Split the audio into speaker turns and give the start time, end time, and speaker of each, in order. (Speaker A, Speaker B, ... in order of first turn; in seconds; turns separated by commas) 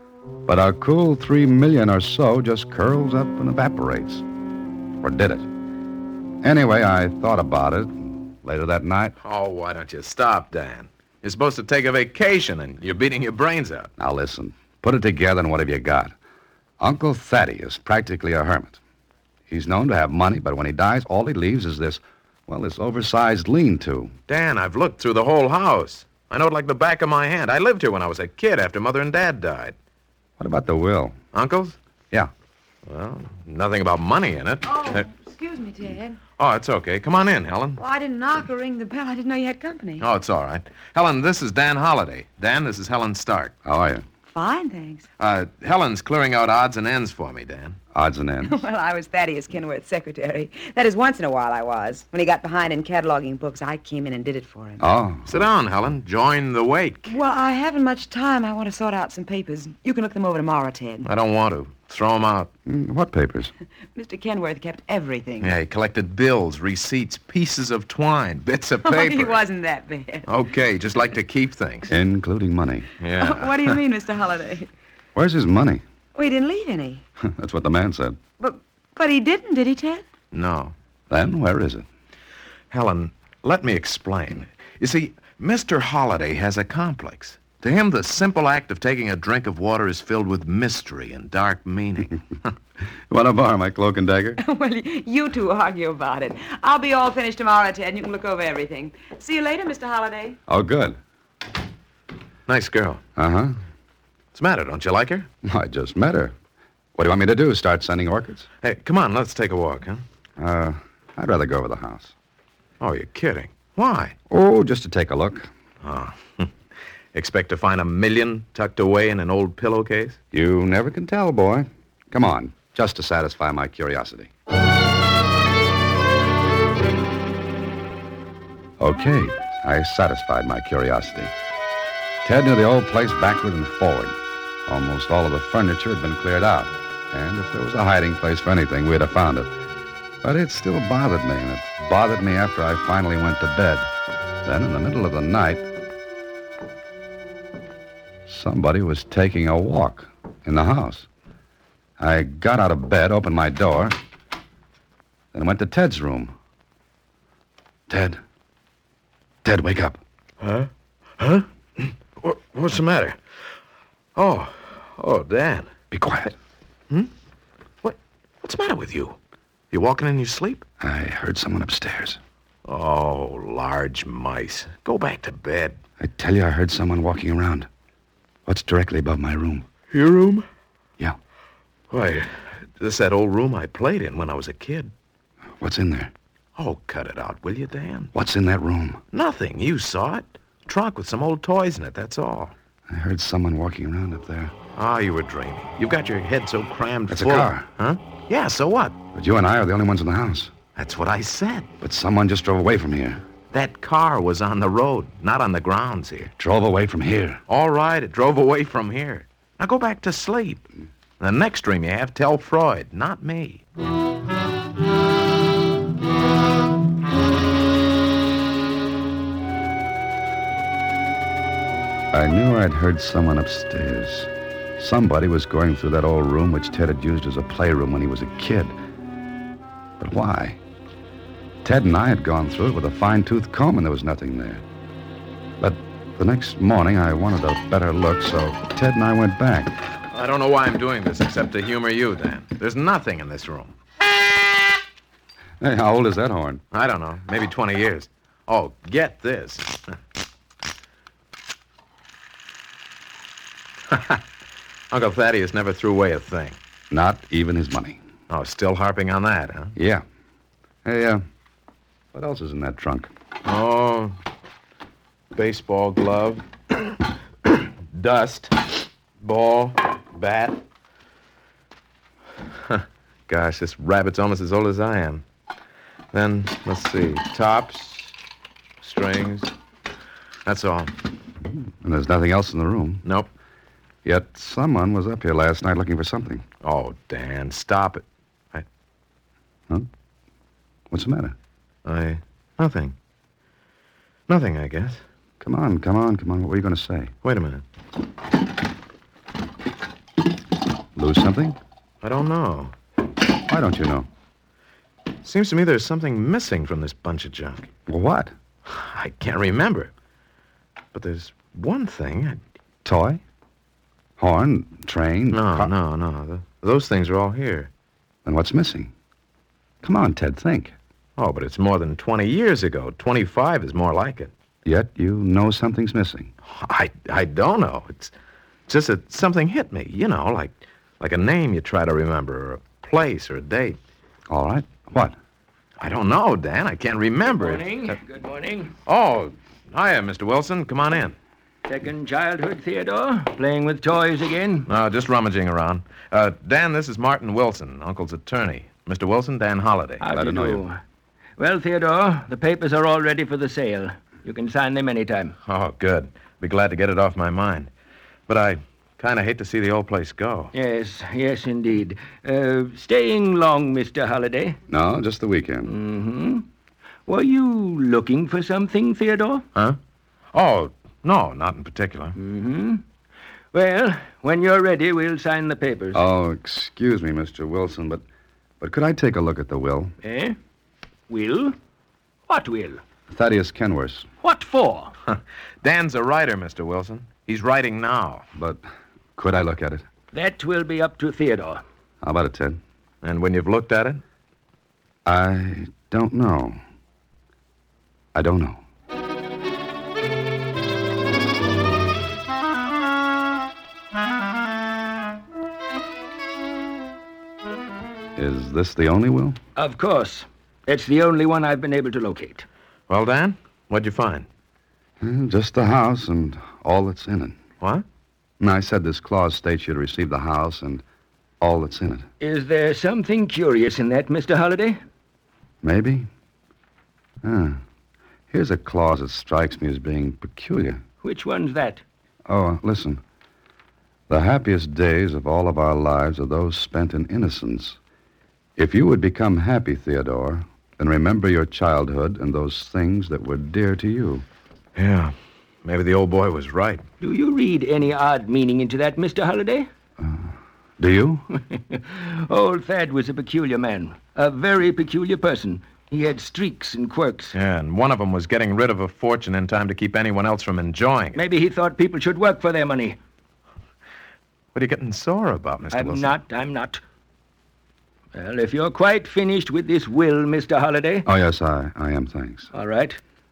Speaker A: 0.5-4.2, Speaker A: 5.0-5.5, Speaker A: 6.4-9.2, Speaker B: 9.2-13.9, Speaker A: 14.0-16.1, Speaker A: 16.8-18.8, Speaker A: 19.5-24.1, Speaker B: 24.3-29.8, Speaker A: 30.4-31.2, Speaker B: 31.3-31.8, Speaker B: 32.9-35.0, Speaker C: 34.6-36.2, Speaker B: 36.4-37.8, Speaker C: 37.8-40.0, Speaker B: 40.0-43.5, Speaker A: 43.6-44.0, Speaker C: 44.3-45.1, Speaker B: 45.2-47.8, Speaker A: 47.9-48.6, Speaker C: 48.4-54.8, Speaker A: 54.8-55.5, Speaker B: 55.3-57.1, Speaker C: 57.1-61.1, Speaker B: 61.0-62.5, Speaker A: 62.7-63.5, Speaker C: 64.0-65.5, Speaker B: 65.4-69.4, Speaker C: 68.8-70.3, Speaker B: 70.3-71.9, Speaker A: 71.9-72.9, Speaker B: 73.0-73.8, Speaker C: 73.2-74.7, Speaker A: 75.2-75.8, Speaker C: 76.2-77.0, Speaker A: 77.2-78.2, Speaker C: 78.4-80.0, Speaker B: 80.3-80.7, Speaker A: 81.1-81.9, Speaker B: 82.7-92.2, Speaker A: 93.1-94.4, Speaker C: 94.4-100.4, Speaker A: 100.5-101.0, Speaker B: 102.5-103.0, Speaker A: 103.2-103.6, Speaker B: 104.3-105.3, Speaker A: 105.4-106.3, Speaker A: 107.0-108.5, Speaker B: 108.6-110.0, Speaker A: 110.4-112.1, Speaker B: 112.8-114.2, Speaker A: 114.3-115.5, Speaker B: 115.8-116.5, Speaker B: 117.1-120.2, Speaker A: 120.3-124.3, Speaker A: 128.8-131.3, Speaker A: 132.2-139.5, Speaker A: 140.2-143.9, Speaker A: 144.4-145.7, Speaker A: 148.3-151.1, Speaker A: 152.0-154.0, Speaker A: 155.3-156.3, Speaker A: 157.9-158.2, Speaker A: 159.4-160.0, Speaker B: 160.4-163.2, Speaker B: 164.2-165.7, Speaker A: 165.9-166.3, Speaker B: 167.8-169.2, Speaker B: 169.7-170.6, Speaker A: 170.8-172.2, Speaker B: 172.7-175.8, Speaker A: 176.0-177.7, Speaker A: 178.5-179.7, Speaker B: 179.9-180.5, Speaker B: 181.9-184.9, Speaker A: 185.6-186.1, Speaker B: 186.6-188.1, Speaker A: 188.1-189.0, Speaker B: 189.1-192.5, Speaker A: 192.9-194.5, Speaker B: 194.8-199.0, Speaker A: 197.1-197.7, Speaker A: 199.1-200.5, Speaker B: 200.8-201.7, Speaker A: 201.8-203.2, Speaker B: 203.5-206.3, Speaker A: 206.4-207.4, Speaker B: 207.5-210.7, Speaker B: 211.2-213.6, Speaker A: 222.1-228.7, Speaker A: 230.0-230.6, Speaker A: 231.6-234.6, Speaker A: 235.6-239.8, Speaker B: 240.1-243.7, Speaker A: 245.6-246.6, Speaker B: 246.7-250.0, Speaker B: 253.9-254.2, Speaker B: 254.9-256.6, Speaker A: 256.9-258.0, Speaker B: 258.3-259.7, Speaker A: 259.8-260.0, Speaker A: 260.9-261.2, Speaker A: 262.1-263.1, Speaker B: 263.4-264.2, Speaker B: 265.3-270.6, Speaker B: 272.7-275.2, Speaker B: 276.1-278.1, Speaker B: 278.8-279.5, Speaker B: 280.4-280.9, Speaker A: 281.6-283.0, Speaker A: 284.1-286.5, Speaker B: 286.6-288.6, Speaker A: 290.9-291.4, Speaker B: 291.9-292.9, Speaker B: 294.3-295.0, Speaker A: 295.4-297.1, Speaker B: 297.2-297.6, Speaker A: 301.0-301.6, Speaker B: 302.0-302.7, Speaker A: 303.5-304.1, Speaker B: 305.2-307.7, Speaker A: 307.9-308.3, Speaker B: 308.7-309.9, Speaker B: 310.9-312.4, Speaker A: 312.8-313.2, Speaker A: 314.2-315.7, Speaker B: 315.3-317.7, Speaker A: 318.2-318.9, Speaker A: 319.8-320.8, Speaker B: 321.2-324.3, Speaker A: 324.6-326.3, Speaker B: 326.5-328.1, Speaker B: 328.7-333.8, Speaker A: 334.3-335.2, Speaker B: 335.8-338.0, Speaker D: 337.2-338.7, Speaker B: 338.9-341.2, Speaker D: 341.7-344.7, Speaker B: 344.7-350.0, Speaker D: 350.0-350.8, Speaker A: 350.1-350.6, Speaker D: 351.4-355.4, Speaker B: 355.4-357.7, Speaker B: 358.3-360.5, Speaker D: 360.5-364.6, Speaker A: 364.7-365.7, Speaker D: 365.6-366.5, Speaker D: 367.1-369.4, Speaker B: 370.3-372.2, Speaker D: 372.1-372.8, Speaker D: 373.5-376.0, Speaker A: 375.9-378.0, Speaker A: 378.6-379.9, Speaker D: 380.0-380.4, Speaker D: 381.1-381.6, Speaker D: 382.3-382.8, Speaker A: 383.1-384.1, Speaker D: 384.2-384.9, Speaker B: 385.1-388.2, Speaker A: 388.4-388.6, Speaker A: 389.2-389.9, Speaker D: 390.1-391.6, Speaker A: 392.0-392.6, Speaker B: 393.0-394.0, Speaker A: 395.1-396.6, Speaker A: 398.1-398.6, Speaker A: 408.2-409.4, Speaker D: 409.6-412.5, Speaker B: 412.9-414.3, Speaker A: 415.0-417.4, Speaker A: 418.4-420.8, Speaker A: 421.4-422.1, Speaker D: 422.2-424.8, Speaker A: 425.6-426.1, Speaker A: 427.2-427.6, Speaker A: 428.3-430.8, Speaker D: 431.0-431.8, Speaker A: 432.3-433.0, Speaker A: 434.1-437.8, Speaker A: 438.6-444.2, Speaker B: 444.8-446.8, Speaker D: 447.0-449.7, Speaker A: 450.0-451.2, Speaker D: 451.3-457.4, Speaker B: 457.3-461.2, Speaker D: 461.1-463.0, Speaker B: 464.5-466.2, Speaker D: 465.7-466.8, Speaker D: 468.1-471.1, Speaker A: 471.1-472.5, Speaker D: 472.5-473.0